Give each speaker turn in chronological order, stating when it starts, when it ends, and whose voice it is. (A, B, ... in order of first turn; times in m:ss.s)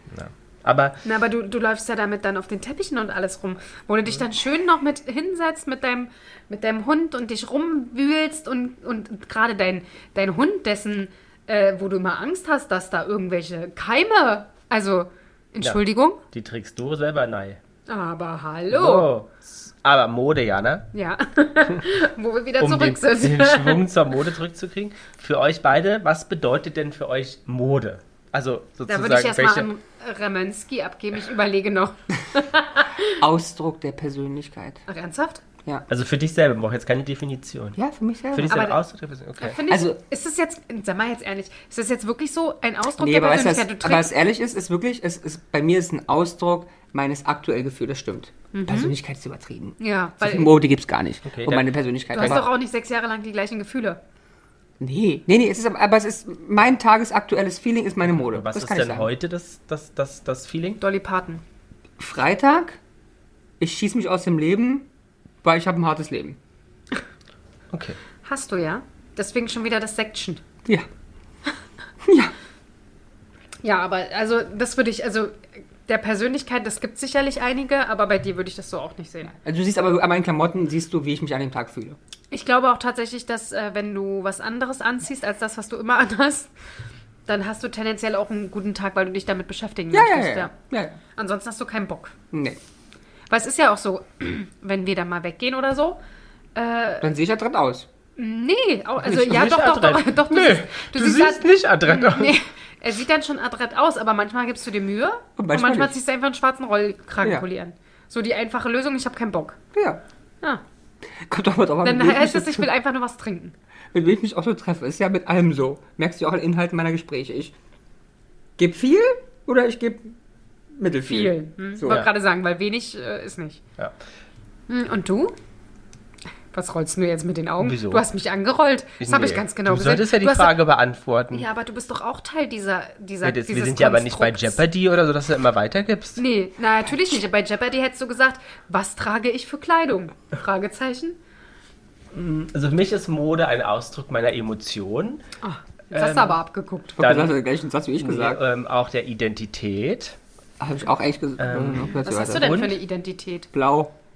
0:00.1-0:01.0 A
0:01.0-0:16.2 B
0:16.3-0:17.6 A
0:17.9-0:19.1 B
0:18.7-0:20.9 A
0:20.9-0:23.8 B
0:22.6-0:29.7 A
0:28.9-0:33.2 B
0:33.2-0:34.8 C
0:34.9-0:35.4 B
0:35.9-0:37.8 A
0:37.8-0:38.6 C
0:38.3-0:39.6 A
0:38.5-0:38.8 B
0:39.4-0:44.1 B
0:39.7-0:40.0 C
0:43.0-0:52.5 C
0:48.5-0:48.9 B
0:49.8-0:50.6 B
0:51.2-0:52.4 A
0:52.1-0:54.0 B
0:54.8-0:59.1 C
0:58.1-1:00.8 A
1:00.8-1:01.4 B
1:02.0-1:02.8 C
1:03.6-1:04.9 C
1:05.4-1:06.4 C
1:07.7-1:08.0 A
1:08.2-1:10.4 B
1:12.0-1:12.3 C
1:13.6-1:19.3 B
1:19.4-1:22.0 C
1:22.3-1:26.5 B
1:27.3-1:30.5 B
1:29.9-1:31.0 C
1:31.1-1:32.1 B
1:32.3-1:32.6 C
1:33.3-1:36.0 B
1:36.5-1:37.1 B
1:37.0-1:37.9 C
1:38.2-1:49.6 B
1:39.0-1:42.4 A
1:45.4-1:45.9 C
1:49.7-1:50.0 C
1:51.2-1:52.7 C
1:51.8-1:53.5 B
1:53.9-1:57.5 C
1:58.6-2:00.2 C
2:00.8-2:02.0 C
2:01.1-2:03.6 B
2:04.7-2:05.4 B
2:06.5-2:10.6 B
2:07.6-2:08.0 A
2:09.0-2:11.5 A
2:11.3-2:14.6 B
2:13.2-2:16.2 A
2:16.2-2:21.2 B
2:22.1-2:25.2 A
2:25.4-2:27.0 B
2:25.9-2:26.4 A
2:27.0-2:28.4 C
2:27.0-2:27.4 A
2:28.0-2:30.2 A
2:30.6-2:32.5 C
2:31.4-2:32.8 A
2:32.0-2:33.5 B
2:33.5-2:33.9 C